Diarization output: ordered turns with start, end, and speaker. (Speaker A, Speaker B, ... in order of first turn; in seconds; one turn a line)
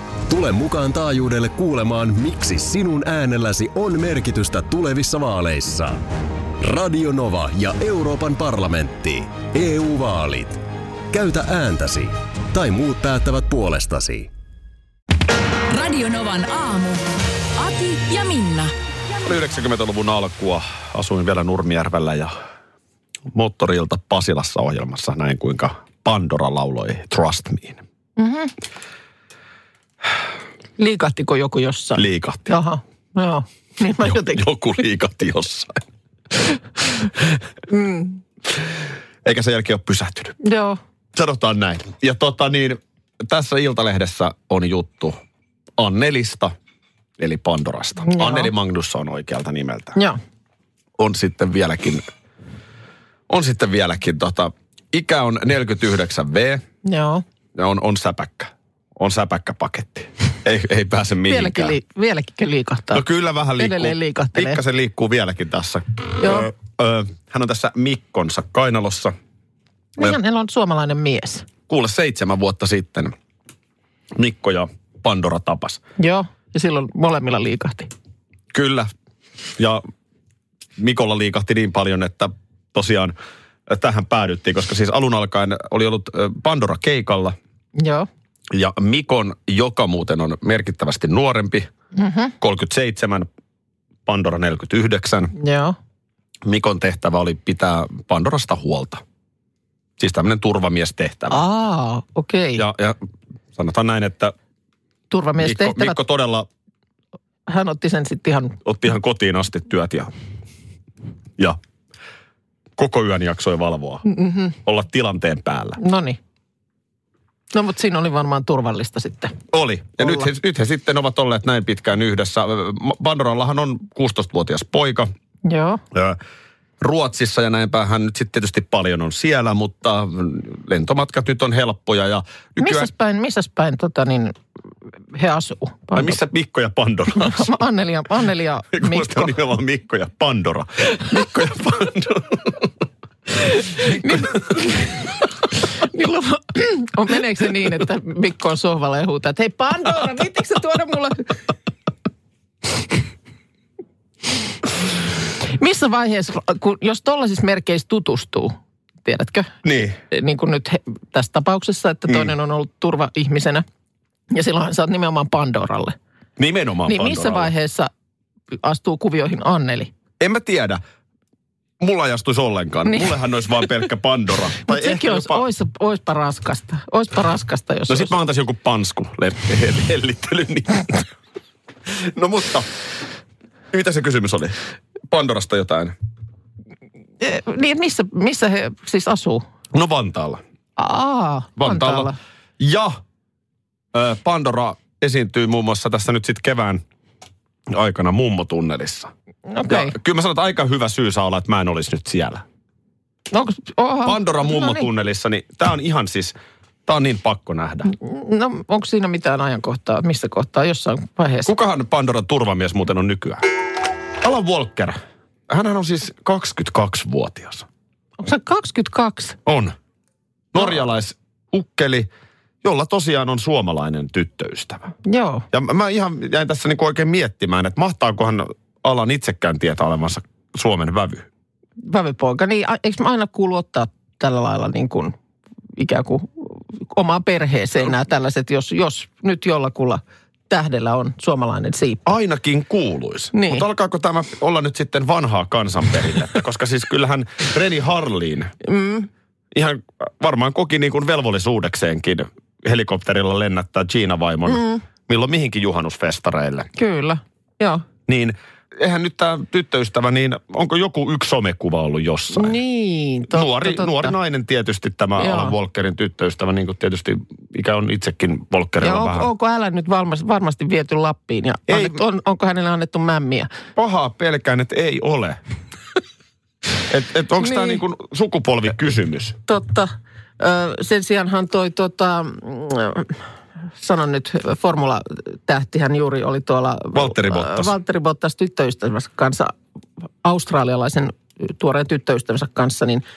Speaker A: 0.3-6.0
Speaker A: 6.6-14.3
Speaker B: 15.7-17.0
Speaker B: 17.6-18.7
Speaker C: 19.2-22.3
Speaker C: 23.3-27.8
Speaker D: 28.2-28.5
Speaker D: 30.8-34.4
Speaker C: 31.9-32.5
Speaker C: 34.0-35.8
Speaker D: 37.7-38.2
Speaker C: 39.2-40.4
Speaker D: 40.4-40.8
Speaker C: 41.1-45.2
Speaker C: 45.8-46.5
Speaker C: 47.2-50.0
Speaker D: 48.0-48.5
Speaker C: 51.0-52.1
Speaker C: 53.3-56.6
Speaker D: 56.8-57.2
Speaker C: 57.5-61.8
Speaker D: 61.3-63.0
Speaker C: 62.9-69.1
Speaker D: 63.6-64.6
Speaker D: 66.2-66.5
Speaker D: 70.0-71.5
Speaker C: 71.7-73.1
Speaker C: 74.2-75.8
Speaker D: 76.0-77.9
Speaker C: 78.5-78.9
Speaker C: 80.8-83.1
Speaker C: 83.7-87.3
Speaker D: 87.8-88.1
Speaker C: 88.5-91.7
Speaker D: 91.9-92.3
Speaker C: 92.4-93.3
Speaker C: 94.0-95.3
Speaker D: 95.3-95.8
Speaker C: 96.4-99.0
Speaker C: 100.0-101.4
Speaker D: 101.3-102.6
Speaker C: 102.6-103.0
Speaker C: 103.5-104.3
Speaker D: 105.1-106.0
Speaker C: 105.4-106.5
Speaker D: 107.5-108.6
Speaker C: 108.6-110.1
Speaker C: 112.8-114.1
Speaker D: 114.1-114.5
Speaker C: 114.6-115.8
Speaker D: 115.8-116.2
Speaker D: 117.5-119.3
Speaker C: 119.5-125.1
Speaker D: 120.0-120.3
Speaker D: 125.5-125.8
Speaker C: 125.9-126.2
Speaker C: 126.8-132.9
Speaker D: 132.6-134.3
Speaker D: 135.1-136.2
Speaker C: 135.9-137.5
Speaker D: 137.2-139.3
Speaker C: 138.7-142.6
Speaker D: 143.5-145.2
Speaker C: 144.1-144.4
Speaker D: 145.8-151.3
Speaker D: 155.4-159.5
Speaker C: 159.6-160.0
Speaker D: 160.1-163.6
Speaker D: 164.3-165.9
Speaker C: 166.4-167.5
Speaker D: 166.9-167.9
Speaker D: 168.6-169.9
Speaker C: 170.2-170.8
Speaker C: 171.8-175.4
Speaker D: 172.9-173.6
Speaker D: 174.6-178.1
Speaker C: 177.9-180.9
Speaker C: 181.9-182.7
Speaker C: 183.7-184.6
Speaker C: 185.1-185.9
Speaker D: 187.2-189.4
Speaker C: 189.7-190.4
Speaker D: 190.8-192.2
Speaker C: 191.6-192.1
Speaker C: 192.6-193.0
Speaker C: 193.9-196.8
Speaker C: 197.7-199.1
Speaker D: 199.5-199.9
Speaker C: 199.7-202.4
Speaker D: 203.3-204.9
Speaker C: 204.0-206.3
Speaker C: 206.8-207.9
Speaker D: 207.9-211.5
Speaker C: 211.4-213.4
Speaker C: 214.2-217.7
Speaker D: 218.2-219.4
Speaker C: 219.4-219.7
Speaker C: 220.5-222.1
Speaker C: 222.6-224.9
Speaker D: 225.1-225.4
Speaker C: 225.5-231.2
Speaker D: 231.8-235.1
Speaker D: 235.8-242.0
Speaker C: 242.1-248.5
Speaker D: 243.3-243.6
Speaker D: 248.6-249.1
Speaker C: 249.5-256.7
Speaker D: 254.5-254.8
Speaker D: 256.8-257.8
Speaker C: 258.1-262.5
Speaker D: 262.4-264.1
Speaker C: 263.3-269.3
Speaker D: 265.2-265.5
Speaker D: 268.8-273.5
Speaker C: 271.7-272.0
Speaker C: 273.8-275.4
Speaker C: 276.9-279.4
Speaker D: 277.4-277.8
Speaker D: 279.5-283.2
Speaker D: 283.8-289.5
Speaker C: 286.9-287.7
Speaker D: 290.2-293.0